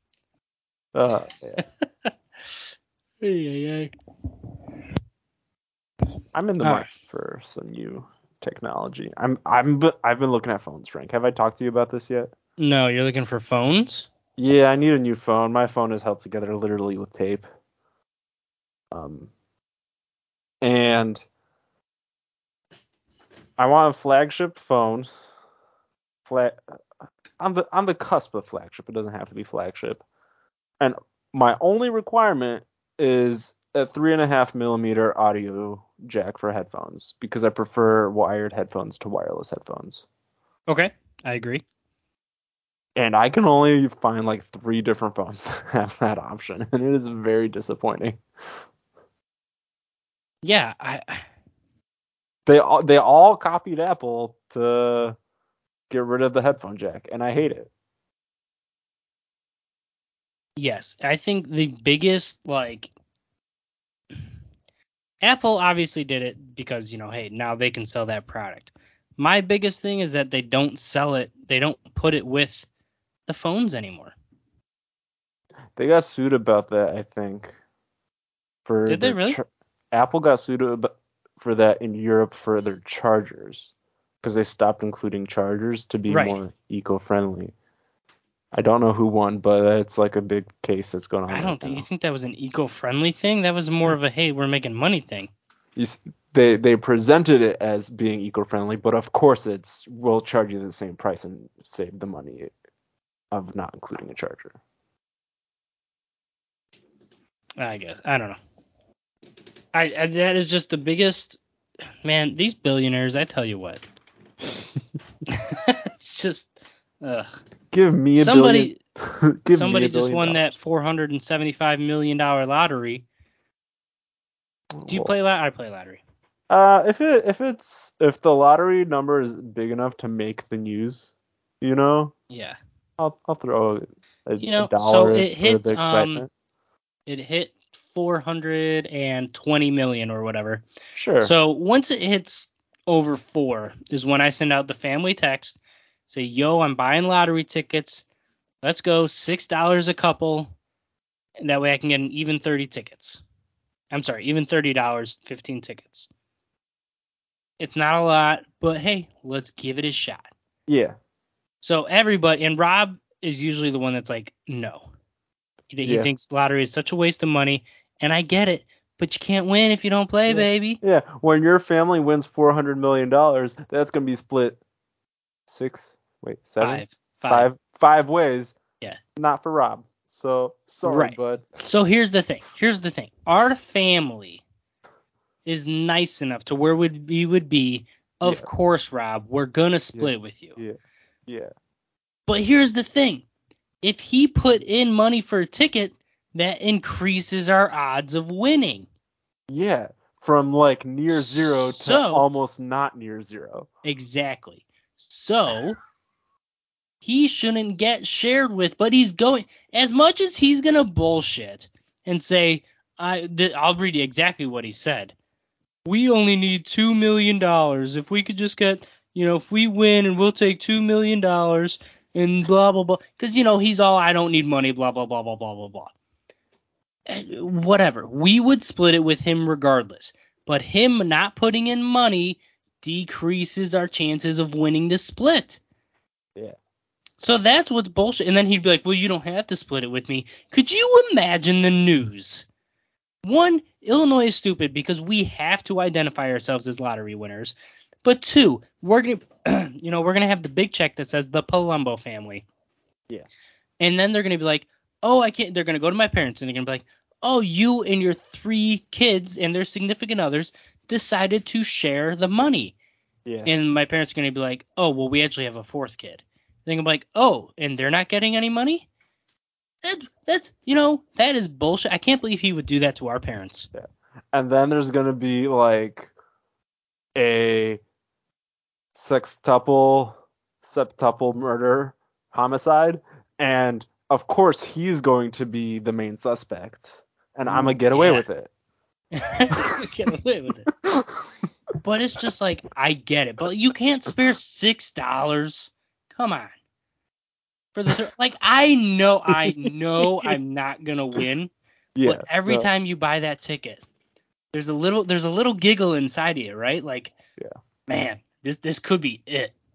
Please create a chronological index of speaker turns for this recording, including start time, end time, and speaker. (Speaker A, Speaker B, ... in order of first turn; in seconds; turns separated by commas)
Speaker A: 0.9-1.6, Speaker B: 1.6-2.1, Speaker B: 3.2-3.9, Speaker A: 6.3-12.3, Speaker B: 6.6-6.9, Speaker B: 12.6-14.1, Speaker A: 14.4-17.5, Speaker A: 18.9-19.3, Speaker A: 20.6-21.2, Speaker A: 23.6-25.1, Speaker A: 26.2-26.6, Speaker A: 27.4-30.0, Speaker A: 30.8-40.0, Speaker B: 40.7-41.6, Speaker A: 43.0-48.2, Speaker B: 50.4-51.3, Speaker A: 52.5-55.2, Speaker A: 55.9-57.7, Speaker B: 60.6-62.9, Speaker B: 65.2-72.7, Speaker B: 73.3-74.1, Speaker A: 75.8-77.5, Speaker A: 78.7-87.5, Speaker B: 78.9-79.4, Speaker B: 86.1-86.4, Speaker A: 88.5-91.9, Speaker B: 91.3-95.3, Speaker A: 95.8-102.5, Speaker A: 103.3-104.5, Speaker B: 107.6-108.4, Speaker B: 109.7-111.4, Speaker B: 112.0-113.8, Speaker B: 115.3-117.3, Speaker A: 117.7-120.5, Speaker B: 118.2-118.8, Speaker B: 119.5-123.0, Speaker A: 124.8-125.1, Speaker B: 124.9-126.0, Speaker A: 126.5-132.1, Speaker B: 132.3-132.6, Speaker A: 133.0-136.3, Speaker B: 134.4-136.3, Speaker B: 137.1-140.6, Speaker A: 140.9-141.3, Speaker B: 141.2-148.1, Speaker B: 148.6-150.5, Speaker B: 151.4-153.2, Speaker B: 153.9-156.1, Speaker B: 157.6-160.3, Speaker A: 160.7-161.0, Speaker B: 161.6-164.9, Speaker B: 165.7-170.8, Speaker A: 165.8-166.1, Speaker A: 170.3-174.6, Speaker A: 175.5-178.6, Speaker B: 176.6-177.5, Speaker A: 179.2-181.6, Speaker B: 180.8-184.4, Speaker B: 185.4-190.6, Speaker A: 188.2-188.5, Speaker A: 189.9-191.5, Speaker B: 192.3-193.2, Speaker B: 193.8-198.9, Speaker A: 199.5-203.7, Speaker B: 201.1-202.2, Speaker B: 203.8-205.8, Speaker B: 207.0-215.1, Speaker B: 215.8-225.9, Speaker B: 227.1-235.6, Speaker B: 237.2-242.5, Speaker B: 243.2-252.4, Speaker B: 253.8-262.8, Speaker A: 263.2-263.5, Speaker B: 263.4-268.9, Speaker B: 269.8-273.7, Speaker A: 273.7-276.1, Speaker A: 277.1-277.8, Speaker A: 278.9-288.5, Speaker B: 287.5-288.3, Speaker B: 289.1-290.7, Speaker A: 290.8-291.1, Speaker B: 291.8-296.5, Speaker B: 297.7-301.5, Speaker A: 302.0-302.7, Speaker B: 302.0-303.8, Speaker B: 304.5-307.2, Speaker B: 307.9-309.5